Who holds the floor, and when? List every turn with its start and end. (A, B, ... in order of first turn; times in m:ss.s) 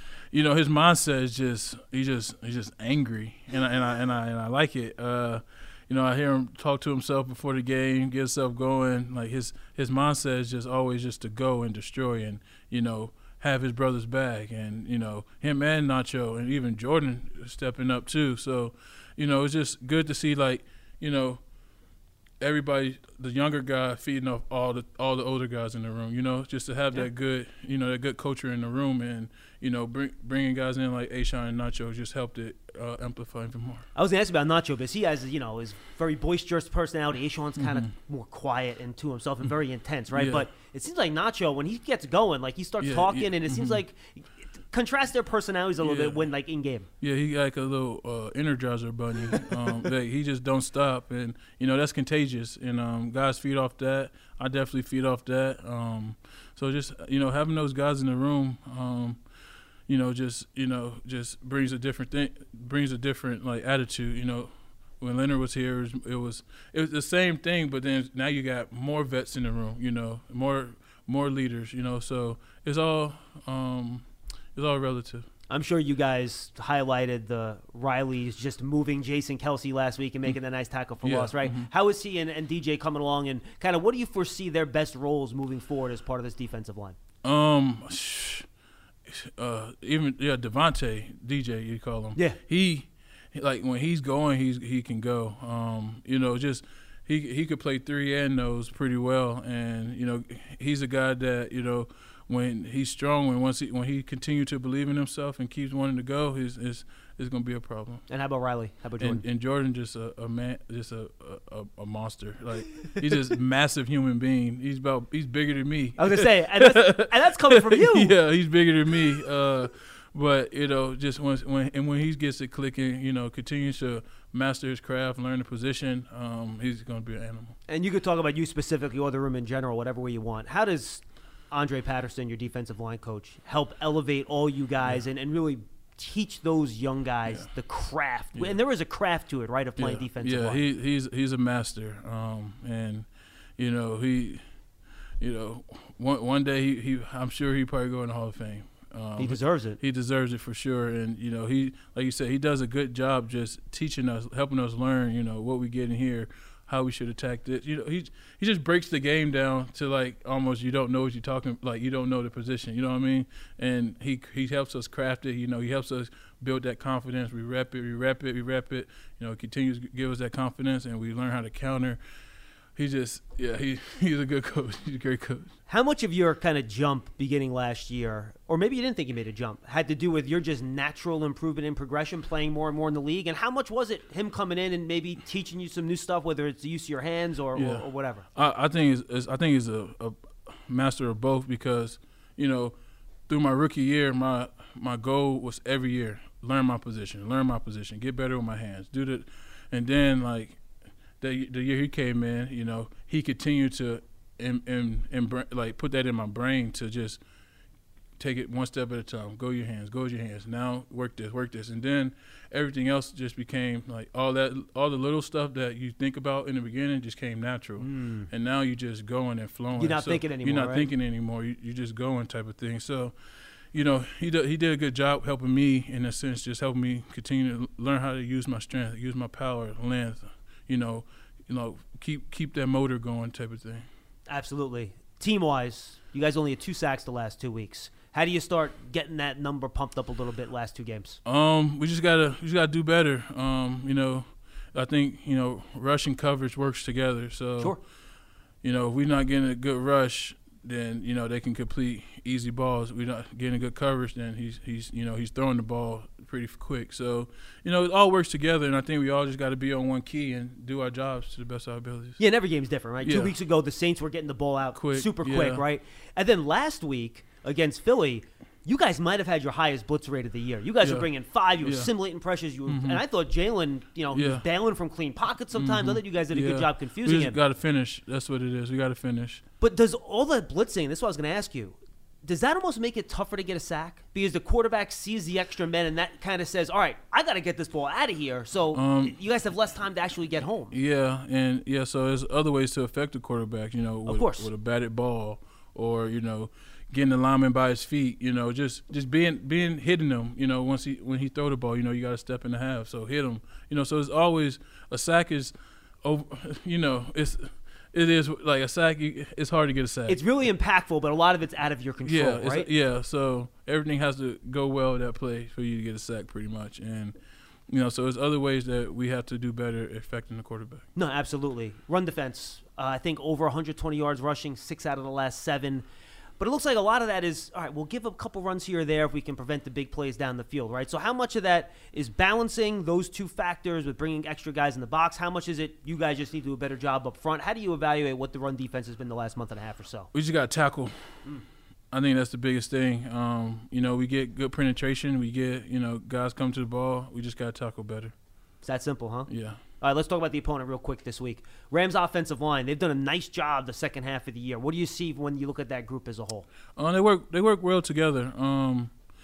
0:00.3-0:21.4 A
0:22.4-0:33.9 A
0:33.9-0:46.9 B
0:37.6-0:37.9 A
0:40.1-0:40.5 A
0:42.8-0:43.8 A
0:45.8-0:46.2 A
0:47.0-0:59.2 A
0:59.9-1:15.3 A
1:15.5-1:27.0 B
1:21.0-1:21.7 A
1:27.2-1:28.5 A
1:29.1-1:48.0 A
1:48.1-1:49.2 B
1:49.0-2:07.6 A
1:56.0-1:58.1 B
2:07.7-2:20.6 B
2:17.2-2:17.5 A
2:19.8-2:24.4 A
2:25.2-2:52.0 A
2:29.2-2:29.8 B
2:52.7-2:55.6 A
2:55.7-3:08.2 B
3:07.5-3:12.7 A
3:13.3-3:20.6 A
3:21.2-3:27.2 A
3:28.2-3:43.1 A
3:37.8-3:38.3 B
3:39.8-3:40.9 B
3:43.7-3:53.9 A
3:54.3-4:01.2 B
4:01.2-4:07.9 A
4:08.6-4:22.2 A
4:22.2-4:37.4 B
4:23.0-4:23.4 A
4:24.7-4:25.6 A
4:30.8-4:31.9 A
4:32.6-4:33.0 A
4:34.1-4:34.4 A
4:35.5-4:39.4 A
4:39.6-4:50.8 B
4:48.7-4:49.2 A
4:50.7-5:10.2 A
4:54.0-4:54.5 B
5:10.1-5:12.7 B
5:12.0-5:17.2 A
5:17.7-5:20.8 A
5:20.9-5:25.8 B
5:26.4-5:40.1 B
5:40.1-5:41.2 A
5:41.9-5:48.1 A
5:48.6-5:49.3 B
5:49.3-5:49.6 A
5:49.8-5:56.5 B
5:56.8-5:58.9 A